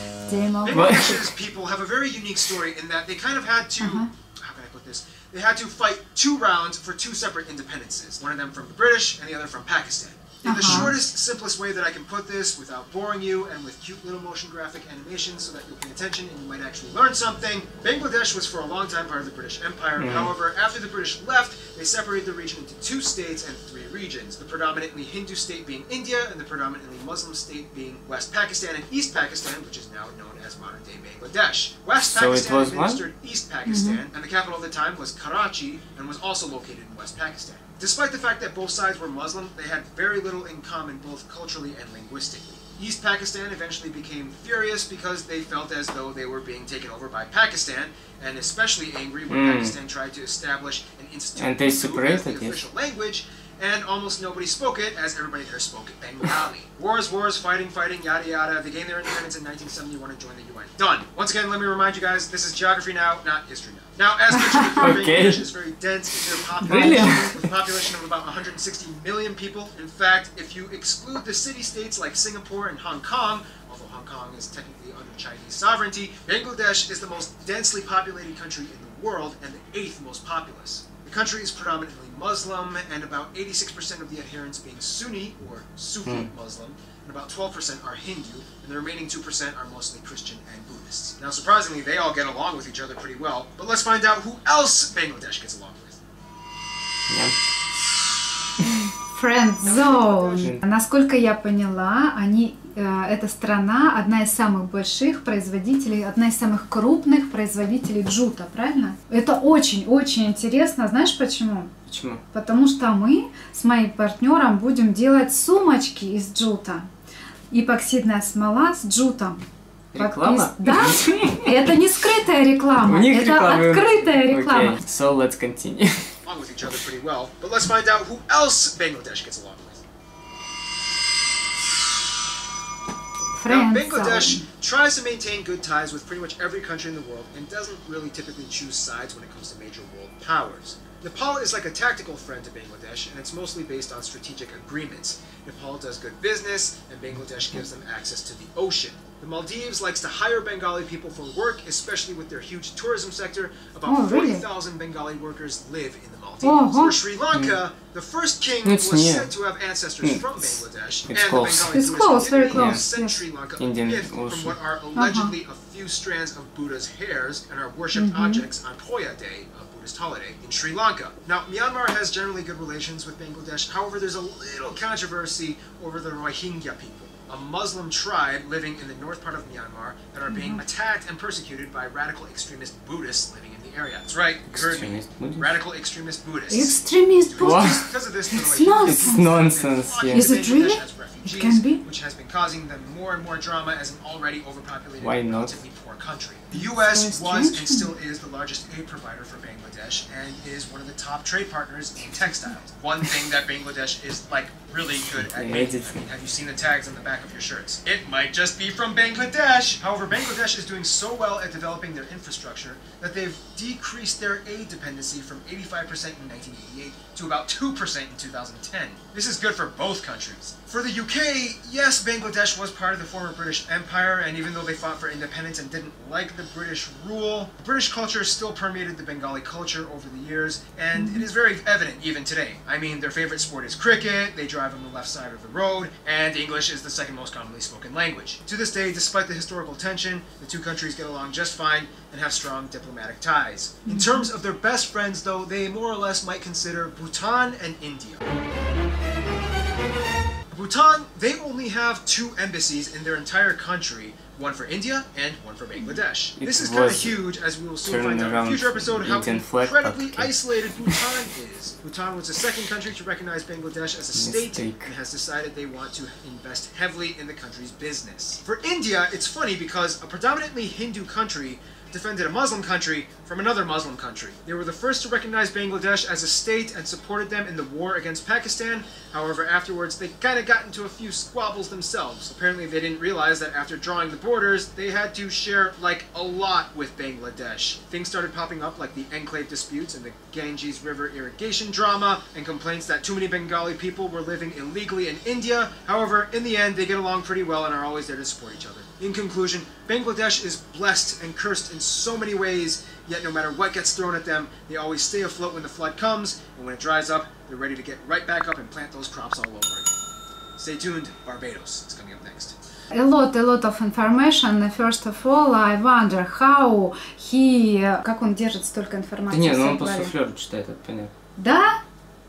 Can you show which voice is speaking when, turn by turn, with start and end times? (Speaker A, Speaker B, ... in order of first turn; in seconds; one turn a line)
Speaker A: 0.3-1.1
Speaker B: 0.6-96.0
Speaker C: 0.7-1.2
Speaker A: 3.8-4.1
Speaker A: 10.4-10.9
Speaker C: 10.6-10.9
Speaker C: 20.0-20.3
Speaker C: 32.0-33.0
Speaker A: 33.6-34.0
Speaker C: 49.3-49.7
Speaker C: 51.4-52.6
Speaker A: 64.5-64.9
Speaker C: 64.8-65.4
Speaker C: 66.3-67.5
Speaker A: 66.6-67.3
Speaker C: 97.1-97.3
Speaker A: 98.9-111.7
Speaker B: 99.6-100.5
Speaker C: 111.9-112.2
Speaker A: 112.3-116.9
Speaker A: 117.5-119.4
Speaker C: 119.9-121.5
Speaker A: 120.0-124.8
Speaker C: 122.8-126.1
Speaker B: 126.2-129.8
Speaker A: 133.3-134.4
Speaker B: 133.4-248.2
Speaker A: 153.8-154.4
Speaker A: 156.4-157.0
Speaker C: 158.6-159.3
Speaker C: 160.0-161.8
Speaker A: 161.7-163.1
Speaker C: 162.5-162.8
Speaker C: 163.6-164.6
Speaker A: 164.9-165.3
Speaker A: 167.9-168.4
Speaker A: 180.3-180.6
Speaker C: 184.5-185.5
Speaker A: 186.5-189.3
Speaker C: 187.4-187.9
Speaker C: 188.8-190.3
Speaker A: 190.1-191.8
Speaker C: 195.0-195.6
Speaker A: 196.5-197.9
Speaker C: 205.2-206.0
Speaker A: 230.9-231.2
Speaker A: 243.8-244.3
Speaker B: 250.5-309.9
Speaker C: 256.4-257.2
Speaker C: 257.8-261.2
Speaker C: 264.1-264.9
Speaker B: 310.6-312.5
Speaker A: 312.9-320.1
Speaker C: 319.3-321.1
Speaker A: 321.4-321.8